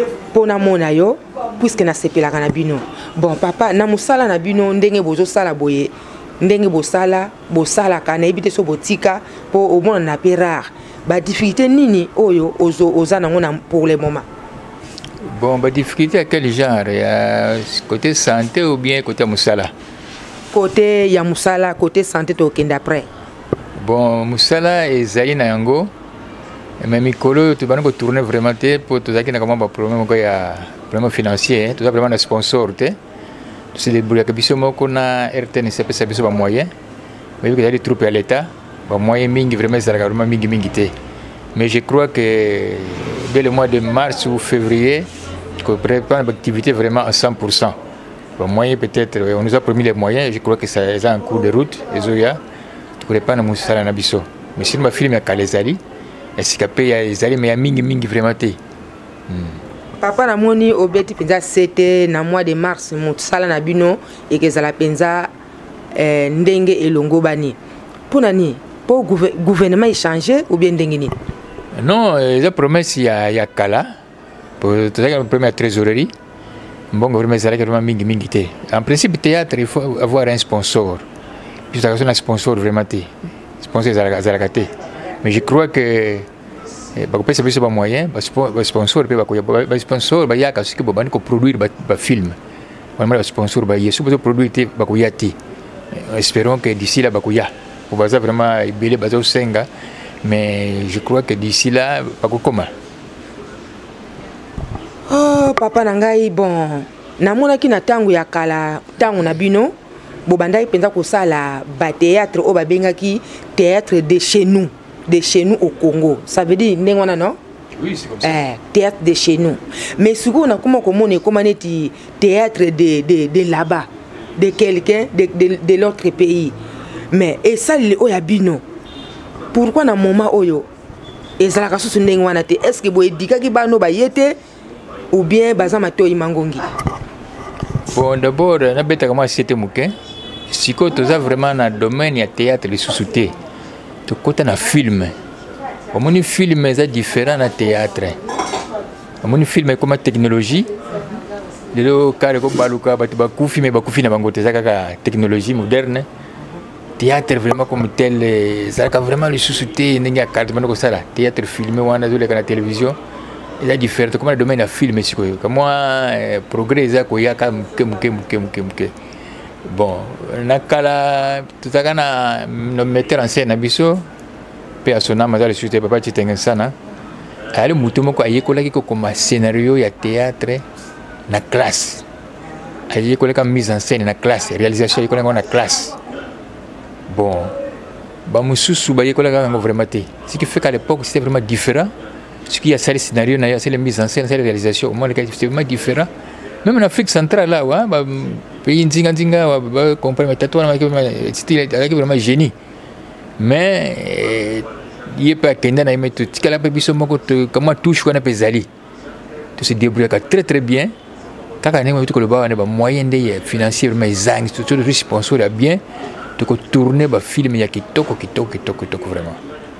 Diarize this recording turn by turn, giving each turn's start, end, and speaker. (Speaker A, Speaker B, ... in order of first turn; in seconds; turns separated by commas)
Speaker A: 0.3-14.2, Speaker B: 15.2-19.7, Speaker A: 20.5-23.1, Speaker B: 23.8-25.9, Speaker B: 26.8-33.0, Speaker B: 33.7-36.7, Speaker B: 37.4-40.9, Speaker B: 41.5-45.1, Speaker B: 45.6-47.8, Speaker B: 48.4-52.4, Speaker B: 53.0-55.8, Speaker B: 56.4-58.6, Speaker B: 59.3-59.6, Speaker A: 60.0-65.3, Speaker A: 65.9-67.6, Speaker A: 68.1-71.2, Speaker B: 71.8-74.0, Speaker B: 74.6-76.1, Speaker B: 76.9-81.0, Speaker B: 81.7-84.7, Speaker B: 85.2-86.3, Speaker B: 86.9-92.4, Speaker B: 93.0-95.3, Speaker B: 95.9-99.7, Speaker B: 100.2-102.7, Speaker A: 105.1-109.7, Speaker A: 110.2-117.4, Speaker B: 117.8-118.4, Speaker A: 118.2-126.5, Speaker A: 127.1-128.6, Speaker A: 129.5-130.7, Speaker A: 131.4-134.4, Speaker A: 135.1-136.7, Speaker B: 137.9-139.9, Speaker B: 140.5-143.3, Speaker B: 144.1-145.1, Speaker B: 145.9-148.2, Speaker B: 149.2-150.7, Speaker B: 151.7-156.1, Speaker B: 157.0-163.0, Speaker B: 163.6-168.9, Speaker B: 169.6-174.0, Speaker B: 174.8-176.7, Speaker B: 177.5-180.6, Speaker B: 181.3-182.0, Speaker B: 182.9-185.9, Speaker B: 187.1-187.5, Speaker B: 188.3-191.9, Speaker B: 192.5-196.1, Speaker B: 196.6-202.5, Speaker B: 203.4-208.7, Speaker B: 209.6-210.9, Speaker B: 211.6-215.8, Speaker B: 216.4-219.4